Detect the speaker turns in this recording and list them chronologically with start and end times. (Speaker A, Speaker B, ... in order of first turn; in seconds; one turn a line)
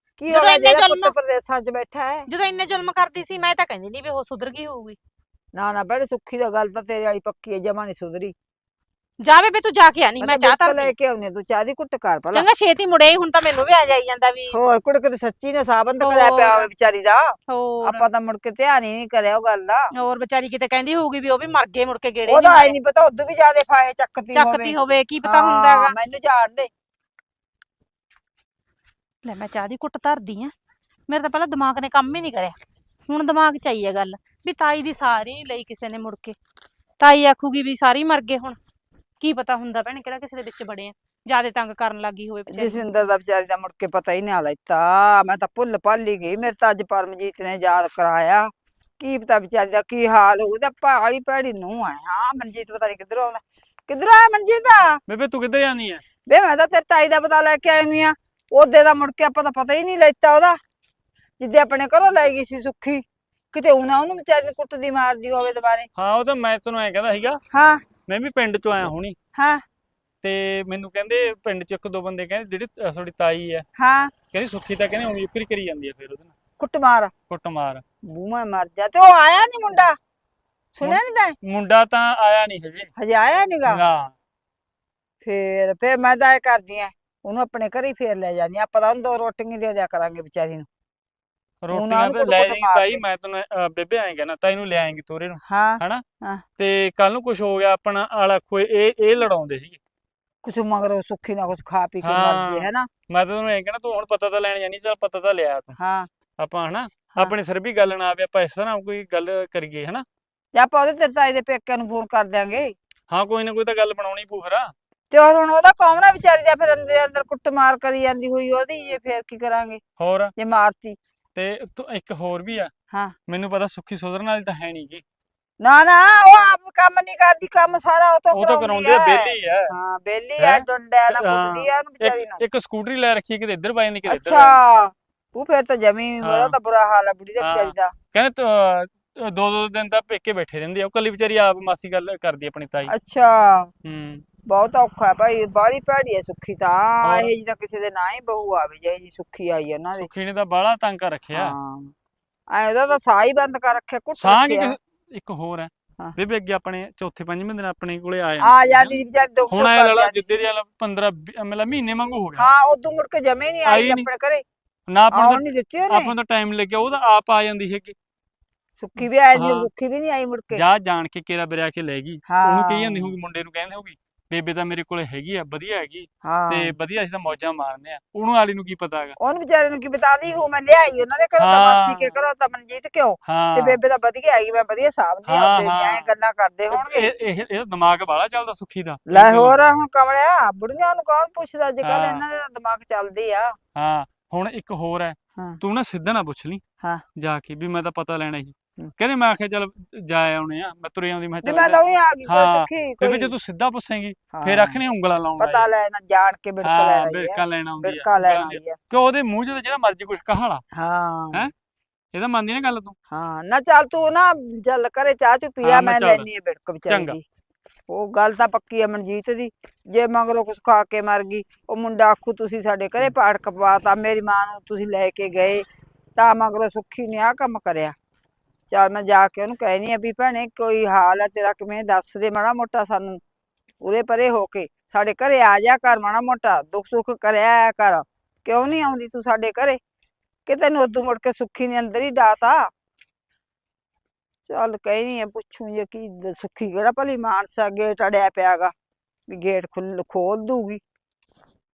Speaker A: 0.2-2.3
Speaker B: 0.3-1.1
Speaker B: 2.3-5.0
Speaker A: 5.5-8.3
Speaker B: 9.2-10.9
Speaker A: 10.2-12.4
Speaker B: 12.3-14.6
Speaker A: 14.5-19.9
Speaker B: 16.0-16.7
Speaker B: 17.5-18.0
Speaker B: 19.9-22.7
Speaker A: 22.3-26.7
Speaker B: 24.3-25.9
Speaker B: 29.2-30.5
Speaker B: 31.1-32.6
Speaker B: 33.1-36.4
Speaker B: 37.0-38.6
Speaker B: 39.2-42.9
Speaker A: 42.5-55.0
Speaker C: 55.1-56.0
Speaker A: 56.3-60.6
Speaker A: 61.4-65.9
Speaker C: 66.0-67.4
Speaker A: 67.5-67.8
Speaker C: 68.0-69.2
Speaker A: 69.3-69.6
Speaker C: 70.2-73.7
Speaker A: 73.8-74.1
Speaker C: 74.3-76.3
Speaker A: 76.6-77.1
Speaker C: 77.3-77.8
Speaker A: 78.0-80.0
Speaker A: 80.7-81.3
Speaker C: 80.8-82.9
Speaker A: 83.0-83.8
Speaker C: 83.7-84.1
Speaker A: 85.2-90.7
Speaker C: 91.6-96.0
Speaker A: 91.7-93.0
Speaker A: 95.4-96.4
Speaker C: 96.6-99.8
Speaker A: 100.4-102.9
Speaker C: 102.0-105.8
Speaker A: 105.8-106.1
Speaker C: 106.4-110.0
Speaker A: 110.5-112.7
Speaker C: 113.1-114.7
Speaker A: 115.1-119.8
Speaker C: 120.0-120.3
Speaker A: 120.3-121.0
Speaker C: 121.3-122.7
Speaker C: 123.3-125.0
Speaker A: 125.6-132.4
Speaker C: 128.3-129.7
Speaker C: 130.4-134.6
Speaker A: 134.1-137.9
Speaker C: 136.2-136.5
Speaker C: 137.4-142.9
Speaker A: 142.9-143.7
Speaker C: 143.8-144.2
Speaker A: 144.4-150.1
Speaker C: 147.0-147.3
Speaker C: 149.9-151.5
Speaker A: 151.3-151.9
Speaker A: 152.5-154.7
Speaker C: 154.2-159.0
Speaker A: 158.4-160.3
Speaker C: 159.5-162.5
Speaker A: 162.3-164.4
Speaker C: 163.7-164.1
Speaker C: 164.9-167.9
Speaker A: 165.1-166.1
Speaker A: 168.8-170.6
Speaker C: 169.3-169.7
Speaker C: 170.5-179.2
Speaker A: 172.3-173.1
Speaker A: 176.2-176.7
Speaker A: 179.2-187.1
Speaker C: 181.4-182.1
Speaker C: 183.3-183.8
Speaker C: 185.3-186.1
Speaker C: 186.7-189.6
Speaker A: 189.1-193.5
Speaker C: 191.8-192.2
Speaker C: 193.8-196.6
Speaker C: 197.2-205.7
Speaker A: 201.4-203.3
Speaker A: 204.3-204.8
Speaker A: 205.4-208.8
Speaker C: 206.6-210.6
Speaker A: 210.7-211.5
Speaker C: 212.1-212.9
Speaker A: 213.1-217.2
Speaker C: 215.6-216.3
Speaker C: 216.9-217.2
Speaker A: 217.9-227.9
Speaker A: 228.7-233.2
Speaker A: 233.8-239.8
Speaker A: 240.4-242.7
Speaker A: 244.4-248.7
Speaker A: 249.3-250.8